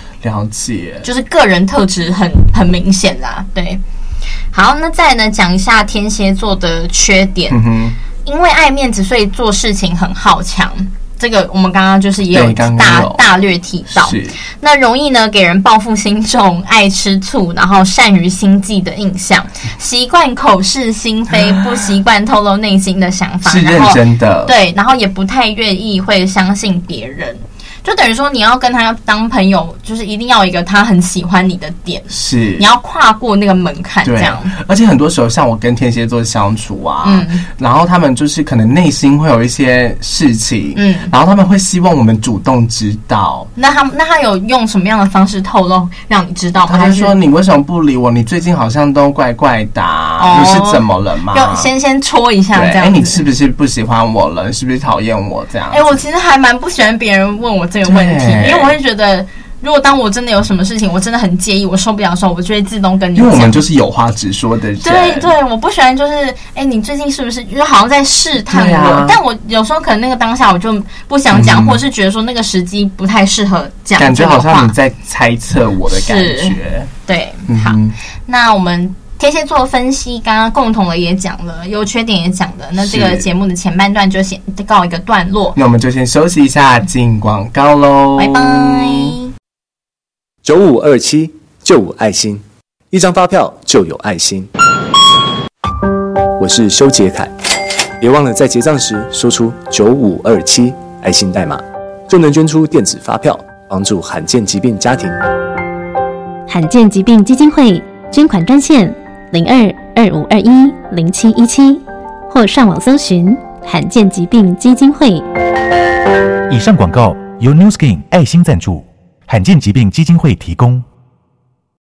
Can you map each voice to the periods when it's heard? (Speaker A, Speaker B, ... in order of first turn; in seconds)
Speaker A: 0.2-1.1, 7.5-8.0, 12.3-13.2, 13.9-14.4, 23.4-24.5, 32.1-32.7, 34.0-43.5, 46.7-51.7, 52.5-55.9, 57.9-58.7, 63.1-65.3, 68.5-69.2, 71.3-71.8, 74.0-76.9, 77.5-78.0, 82.8-83.2, 85.5-89.1
Speaker B: 1.0-3.8, 4.5-7.6, 8.2-34.5, 37.0-37.5, 40.8-41.1, 43.6-47.1, 50.2-53.2, 55.7-63.6, 64.8-74.7, 75.9-85.6, 88.2-89.3
Speaker C: 90.4-94.5, 96.4-97.3, 98.0-105.2
Speaker D: 106.5-115.3
Speaker E: 116.5-120.8